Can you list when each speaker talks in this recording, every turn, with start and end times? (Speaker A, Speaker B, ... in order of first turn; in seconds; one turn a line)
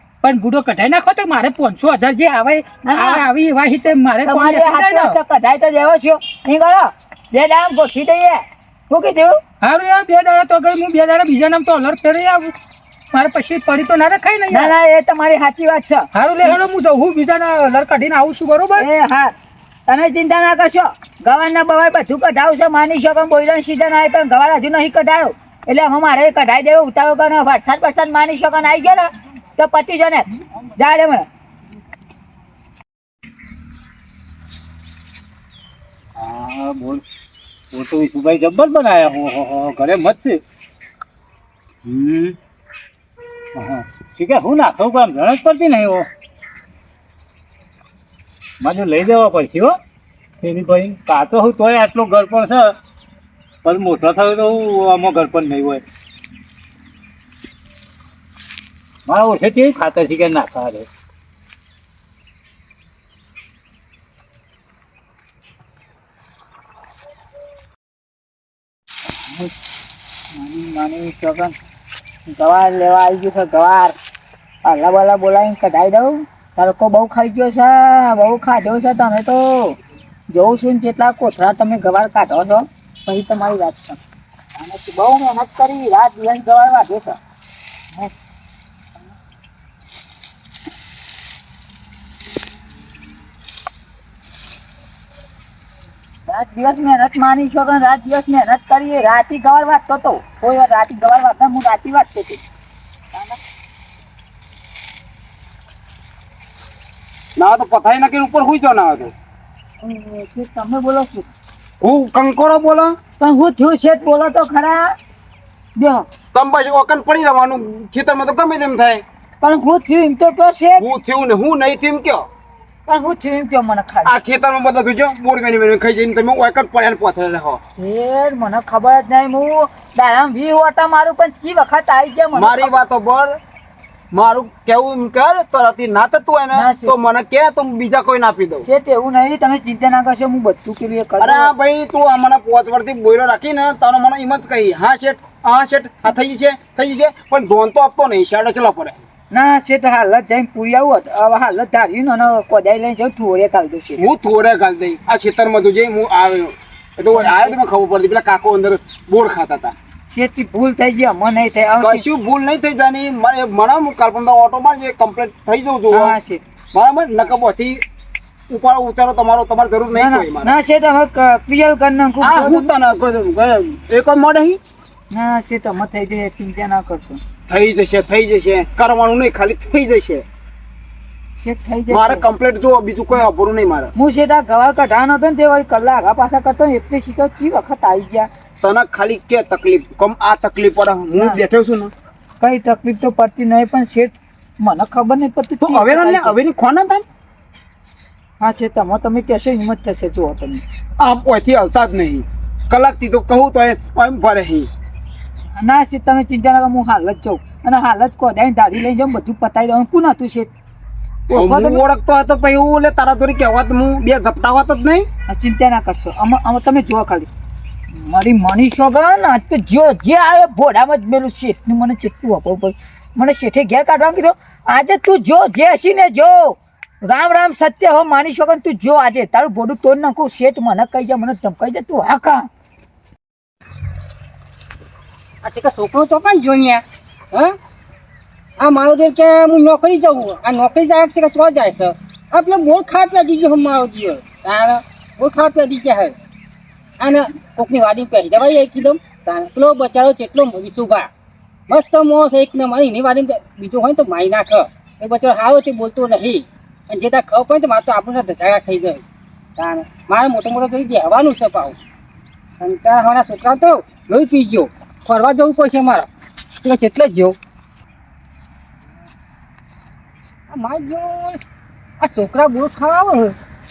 Speaker A: 0.2-5.2
Speaker B: 2.8-3.2
Speaker B: 4.2-9.4
Speaker A: 9.6-12.5
Speaker A: 13.1-14.7
Speaker B: 14.5-16.6
Speaker A: 16.1-18.9
Speaker B: 18.8-19.3
Speaker B: 19.9-31.3
Speaker C: 36.2-37.0
Speaker C: 37.7-40.4
Speaker C: 41.8-42.4
Speaker C: 43.5-46.1
Speaker C: 48.6-49.8
Speaker C: 50.4-52.8
Speaker C: 53.6-55.8
Speaker C: 59.1-60.9
Speaker B: 70.3-71.5
Speaker B: 72.3-74.0
Speaker B: 74.6-79.8
Speaker B: 80.3-84.0
Speaker B: 84.5-87.2
Speaker B: 96.3-102.4
Speaker B: 103.1-103.4
Speaker D: 107.4-109.1
Speaker B: 109.8-111.3
Speaker D: 111.8-113.0
Speaker B: 113.2-114.9
Speaker B: 115.8-116.0
Speaker D: 116.3-119.0
Speaker B: 119.4-120.9
Speaker D: 120.8-122.3
Speaker B: 122.9-124.2
Speaker D: 124.0-127.6
Speaker B: 127.7-132.8
Speaker D: 132.3-133.4
Speaker D: 134.1-138.7
Speaker B: 136.5-136.9
Speaker B: 138.6-141.5
Speaker D: 141.2-149.0
Speaker B: 149.3-154.0
Speaker D: 154.0-159.7
Speaker B: 157.1-157.6
Speaker B: 160.1-162.1
Speaker D: 161.8-166.2
Speaker B: 165.9-166.4
Speaker D: 166.7-167.8
Speaker D: 168.5-170.5
Speaker B: 169.9-172.7
Speaker D: 172.2-174.6
Speaker B: 175.1-177.2
Speaker D: 177.5-180.2
Speaker B: 181.4-182.2
Speaker D: 181.9-183.9
Speaker B: 183.9-188.3
Speaker D: 188.6-191.9
Speaker B: 191.1-191.4
Speaker B: 192.4-196.4
Speaker D: 195.6-197.0
Speaker B: 198.4-200.6
Speaker D: 201.0-204.7
Speaker B: 205.6-210.5
Speaker B: 211.3-211.8
Speaker D: 211.3-215.1
Speaker B: 215.3-217.3
Speaker B: 217.9-232.5
Speaker E: 235.4-237.5
Speaker E: 238.6-246.1
Speaker E: 247.0-251.1
Speaker E: 251.7-259.0
Speaker E: 259.6-261.8
Speaker E: 262.6-266.1
Speaker E: 266.6-267.4
Speaker E: 270.5-271.4
Speaker E: 272.0-273.3